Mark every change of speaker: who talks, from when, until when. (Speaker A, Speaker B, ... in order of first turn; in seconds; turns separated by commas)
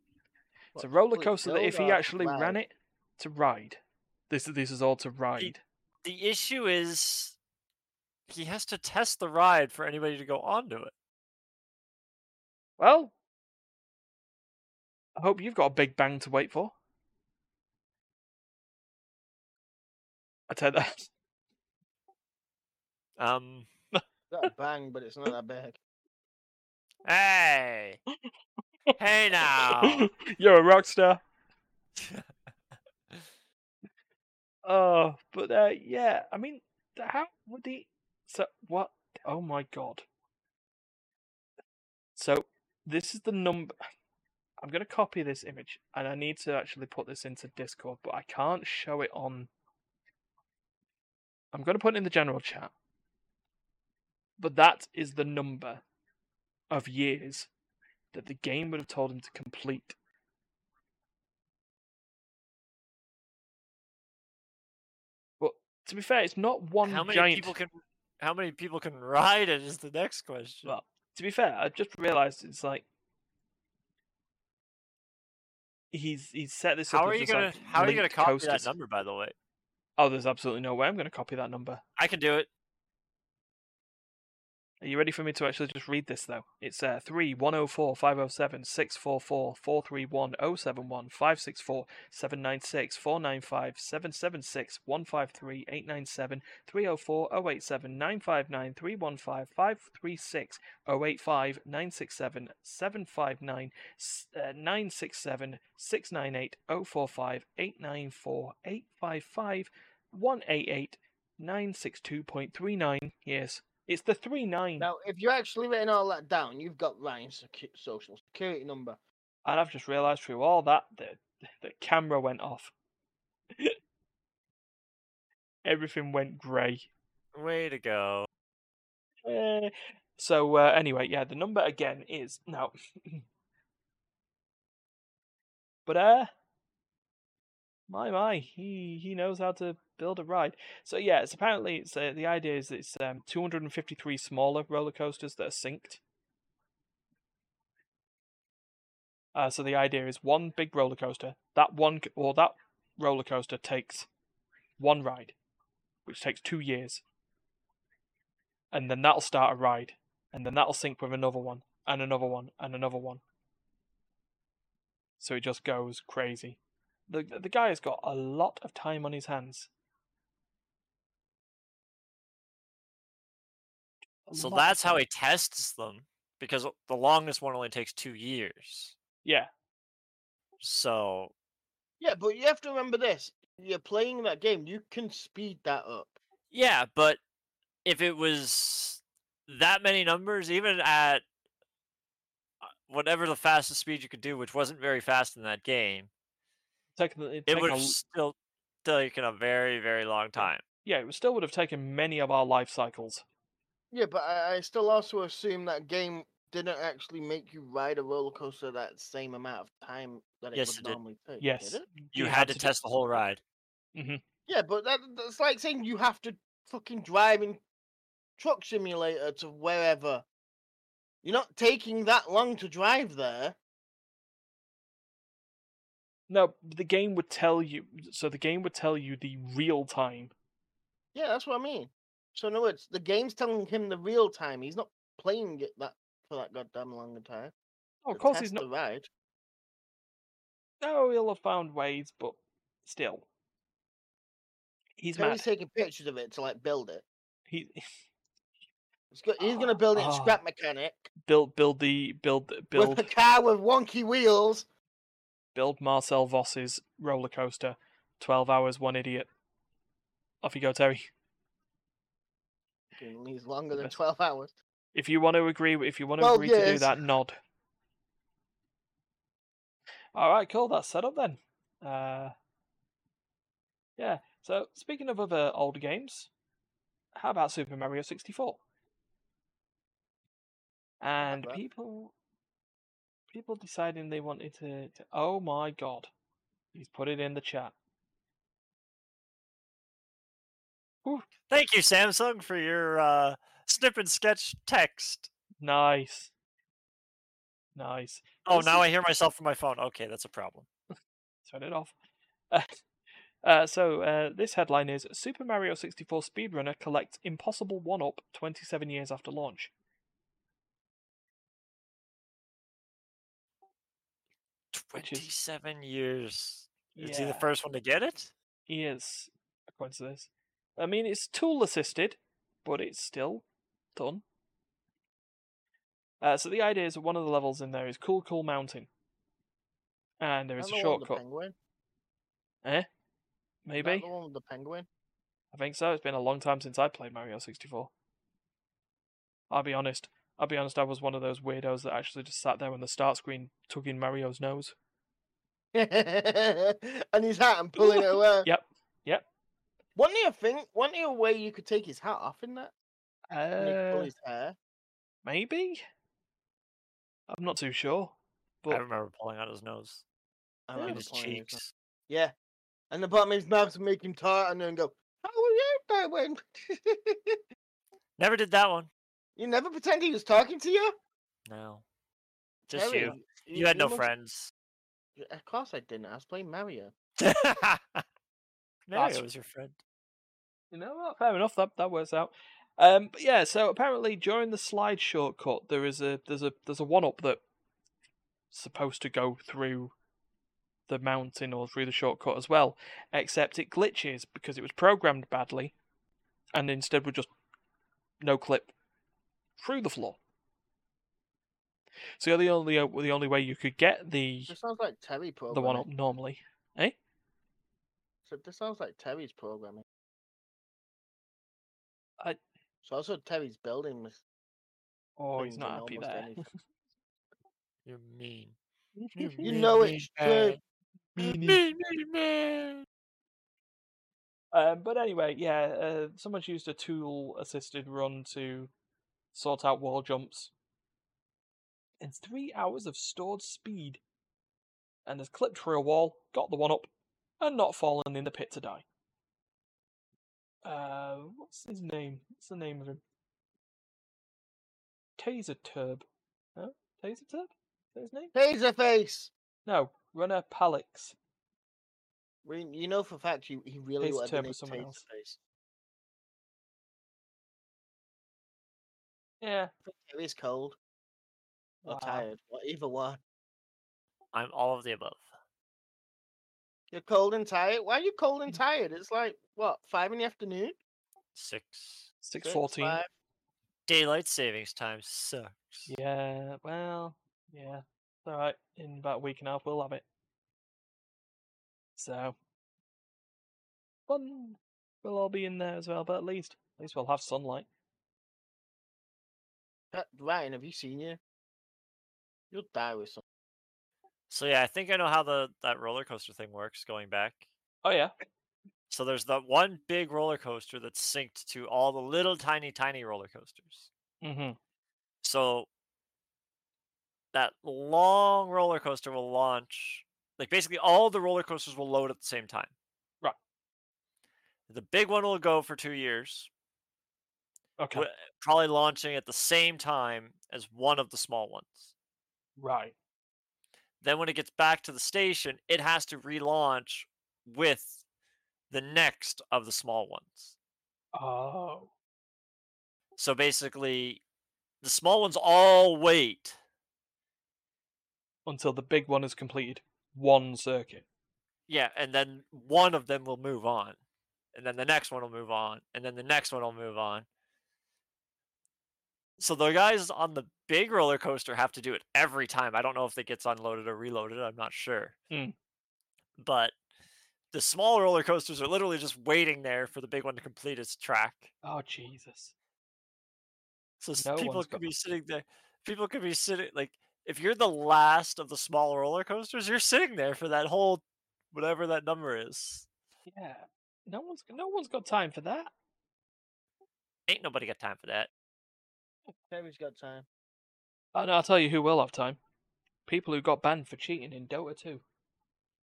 Speaker A: 0.7-2.6, Speaker B: 0.8-5.6, Speaker C: 5.4-7.4, Speaker C: 8.3-10.9, Speaker B: 12.8-13.1, Speaker B: 15.2-16.7, Speaker B: 20.5-21.1, Speaker C: 23.2-23.7, Speaker A: 24.3-25.8, Speaker C: 27.1-28.0, Speaker B: 28.9-31.2, Speaker C: 29.0-30.1, Speaker C: 32.0-32.3, Speaker B: 34.6-40.0, Speaker B: 42.2-43.7, Speaker B: 44.6-49.5, Speaker B: 51.5-52.7, Speaker B: 54.4-55.8, Speaker B: 56.7-57.5, Speaker B: 58.1-60.0, Speaker B: 65.4-67.5, Speaker C: 66.8-70.8, Speaker B: 70.7-72.8, Speaker B: 75.9-78.7, Speaker C: 76.9-79.3, Speaker B: 80.0-81.8, Speaker C: 82.0-82.5, Speaker B: 84.8-114.9, Speaker A: 114.8-119.0, Speaker B: 119.5-122.7, Speaker B: 125.7-126.9, Speaker C: 127.3-128.3, Speaker B: 129.3-133.2, Speaker B: 135.9-136.3, Speaker B: 137.9-146.0, Speaker B: 149.3-154.1, Speaker B: 154.8-155.3, Speaker B: 156.1-157.0, Speaker B: 158.7-163.2, Speaker B: 165.2-169.7, Speaker B: 174.3-175.0, Speaker C: 174.4-178.9, Speaker C: 180.6-181.3, Speaker A: 182.0-186.2, Speaker C: 186.5-187.2, Speaker C: 187.8-191.2, Speaker C: 192.9-196.1, Speaker B: 197.0-197.9, Speaker C: 197.5-200.6, Speaker B: 200.4-203.2, Speaker A: 203.9-211.9, Speaker C: 210.5-211.0, Speaker B: 211.4-212.7, Speaker C: 212.1-213.4, Speaker B: 213.9-214.2, Speaker A: 214.5-217.6, Speaker A: 218.4-220.2, Speaker A: 221.2-223.6, Speaker B: 226.3-230.3, Speaker A: 231.1-237.5, Speaker B: 238.1-238.7, Speaker A: 238.1-239.1, Speaker B: 240.8-243.3, Speaker B: 245.0-245.4, Speaker A: 245.2-247.1, Speaker B: 247.5-247.8, Speaker A: 249.1-251.1, Speaker B: 249.4-250.4, Speaker B: 251.3-253.1, Speaker A: 252.8-254.7, Speaker B: 255.6-259.3, Speaker B: 260.4-261.1, Speaker A: 263.0-264.5, Speaker B: 264.9-267.4, Speaker A: 266.2-267.1, Speaker B: 270.1-272.3, Speaker B: 274.0-276.3, Speaker B: 277.1-278.6, Speaker B: 281.0-282.1, Speaker A: 281.2-281.6, Speaker B: 283.3-286.1, Speaker B: 286.7-287.8, Speaker C: 291.5-295.3, Speaker B: 295.6-296.3, Speaker B: 297.8-298.8, Speaker C: 298.5-300.7, Speaker B: 301.5-301.9, Speaker B: 302.5-302.8, Speaker B: 303.4-309.7, Speaker C: 314.7-318.3, Speaker B: 315.0-315.3, Speaker B: 317.0-317.5, Speaker B: 318.7-324.2, Speaker B: 326.2-328.9, Speaker B: 330.2-331.2, Speaker A: 330.6-331.6, Speaker B: 333.7-334.1, Speaker A: 333.8-334.9, Speaker B: 335.5-337.9, Speaker B: 339.5-344.8, Speaker A: 345.7-348.5, Speaker B: 347.8-349.2, Speaker A: 350.0-352.7, Speaker B: 353.3-354.1, Speaker A: 353.6-354.6, Speaker B: 355.2-355.8, Speaker B: 357.3-358.8, Speaker C: 358.7-360.0, Speaker A: 360.7-362.3, Speaker B: 360.8-361.0, Speaker C: 360.8-361.7, Speaker A: 362.9-367.4, Speaker C: 368.2-368.9, Speaker A: 369.4-370.9, Speaker C: 371.5-371.8, Speaker C: 372.7-374.5, Speaker A: 372.7-374.1, Speaker A: 375.2-376.9, Speaker C: 377.2-378.0, Speaker C: 378.9-379.8, Speaker B: 378.9-379.2, Speaker B: 380.7-387.4, Speaker B: 388.5-389.9, Speaker B: 390.9-395.8, Speaker B: 396.5-397.3, Speaker B: 398.2-398.7, Speaker B: 399.6-400.2, Speaker B: 402.2-404.6, Speaker A: 404.5-405.9, Speaker B: 405.5-407.0, Speaker A: 408.2-409.8, Speaker A: 412.8-414.2, Speaker B: 415.2-416.4, Speaker A: 415.4-416.5, Speaker C: 417.9-418.6, Speaker B: 419.0-419.5, Speaker C: 419.2-420.6, Speaker A: 419.4-420.6, Speaker B: 421.2-421.6, Speaker C: 421.2-422.9, Speaker B: 424.5-428.7, Speaker B: 429.3-430.5, Speaker B: 432.0-434.0, Speaker B: 435.1-436.9, Speaker B: 437.4-438.9, Speaker B: 440.6-443.0, Speaker B: 445.2-448.3, Speaker A: 448.4-449.3, Speaker B: 449.7-451.1, Speaker A: 452.4-455.4, Speaker B: 454.0-455.0, Speaker B: 459.4-459.7, Speaker A: 459.9-460.8, Speaker B: 461.9-462.3, Speaker A: 461.9-463.2, Speaker C: 464.3-465.3, Speaker A: 466.9-470.8, Speaker C: 471.4-472.1, Speaker B: 472.2-473.0, Speaker A: 472.4-473.1, Speaker C: 473.9-475.9, Speaker B: 475.9-480.0, Speaker B: 482.0-482.4, Speaker B: 484.1-487.7, Speaker A: 489.9-491.2, Speaker A: 492.5-493.2, Speaker C: 494.3-497.4, Speaker B: 497.8-498.1, Speaker C: 498.9-503.9, Speaker B: 504.2-504.6, Speaker C: 505.2-505.7, Speaker C: 507.3-512.7, Speaker C: 514.7-516.5, Speaker B: 517.8-518.1, Speaker C: 517.9-521.9, Speaker B: 522.6-522.9, Speaker C: 524.0-528.0, Speaker C: 528.7-530.5, Speaker B: 531.1-531.9, Speaker C: 533.2-534.2, Speaker C: 534.8-536.6, Speaker B: 538.5-541.0, Speaker C: 541.7-544.0, Speaker C: 544.5-547.3, Speaker C: 549.4-555.2, Speaker C: 556.4-556.7, Speaker C: 557.5-561.5, Speaker B: 561.6-562.5, Speaker C: 564.0-572.9, Speaker B: 564.2-564.8, Speaker B: 573.3-575.7, Speaker C: 577.3-578.3, Speaker A: 579.5-580.3, Speaker B: 581.1-582.4, Speaker B: 583.1-585.0